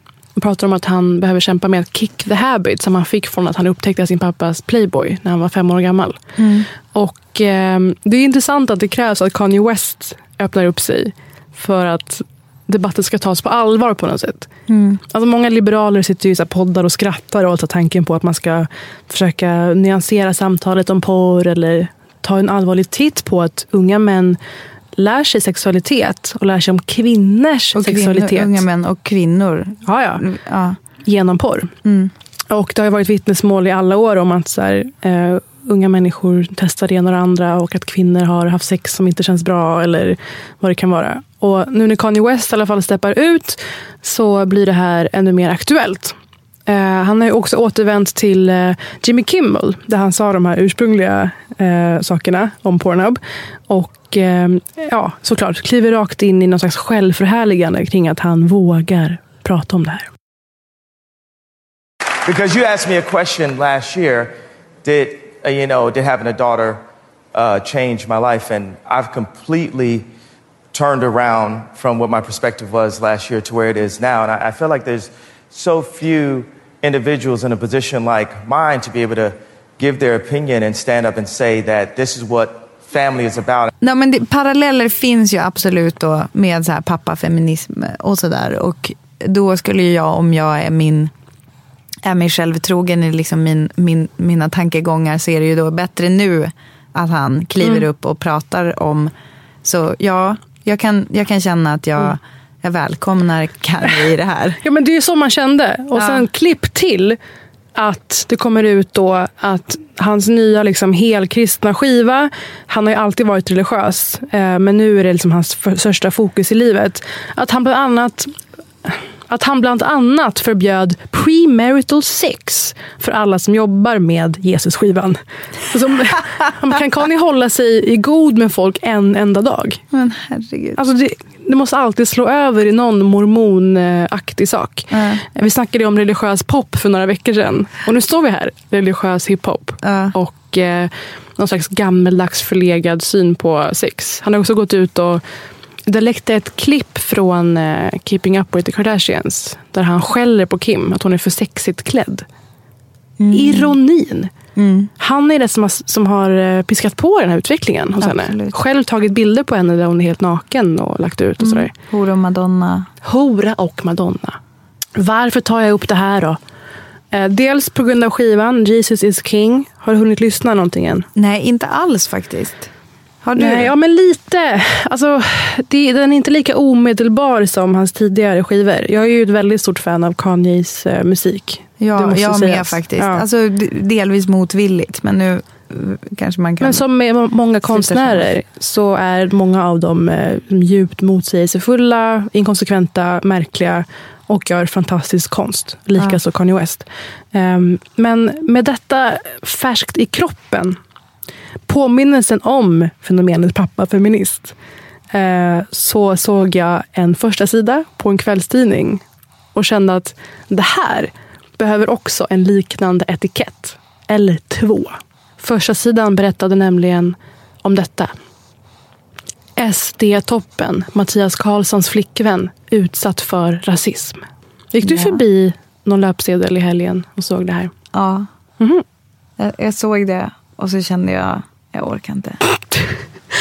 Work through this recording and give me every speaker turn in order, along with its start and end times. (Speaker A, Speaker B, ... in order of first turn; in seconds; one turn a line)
Speaker A: 0.4-6.2
Speaker B: 6.4-6.7
Speaker A: 6.9-14.5
Speaker B: 14.7-15.0
Speaker A: 15.1-24.4
Speaker A: 25.0-28.6
Speaker B: 27.8-30.8
Speaker A: 29.9-30.2
Speaker A: 31.0-31.7
Speaker B: 31.8-32.1
Speaker A: 32.5-46.1
Speaker A: 46.7-60.1
Speaker C: 62.2-66.8
Speaker C: 67.3-70.1
Speaker C: 70.7-83.7
Speaker B: 83.8-91.1
Speaker B: 92.0-99.1
Speaker B: 99.7-104.6
Speaker A: 104.6-107.2
Speaker B: 106.0-106.2
Speaker A: 107.8-118.3
Speaker A: 118.9-129.8
Speaker B: 129.9-130.8
Speaker A: 130.8-145.2
Speaker B: 134.9-135.2
Speaker B: 139.8-140.1
Speaker A: 145.9-152.3
Speaker B: 153.2-153.8
Speaker A: 153.3-154.3
Speaker B: 154.6-154.9
Speaker A: 155.0-161.7
Speaker B: 158.0-158.5
Speaker B: 161.4-162.9
Speaker A: 163.0-164.4
Speaker A: 165.0-166.4
Speaker A: 167.1-171.1
Speaker B: 171.2-172.7
Speaker B: 173.2-173.7
Speaker A: 173.4-183.2
Speaker B: 181.8-186.8
Speaker A: 186.6-200.8
Speaker B: 187.7-188.3
Speaker A: 201.7-204.5
Speaker A: 205.1-209.0
Speaker A: 209.5-218.1
Speaker A: 219.6-224.2
Speaker A: 224.7-227.7
Speaker B: 224.8-225.2
Speaker B: 227.9-228.3
Speaker A: 228.6-228.8
Speaker B: 229.4-232.4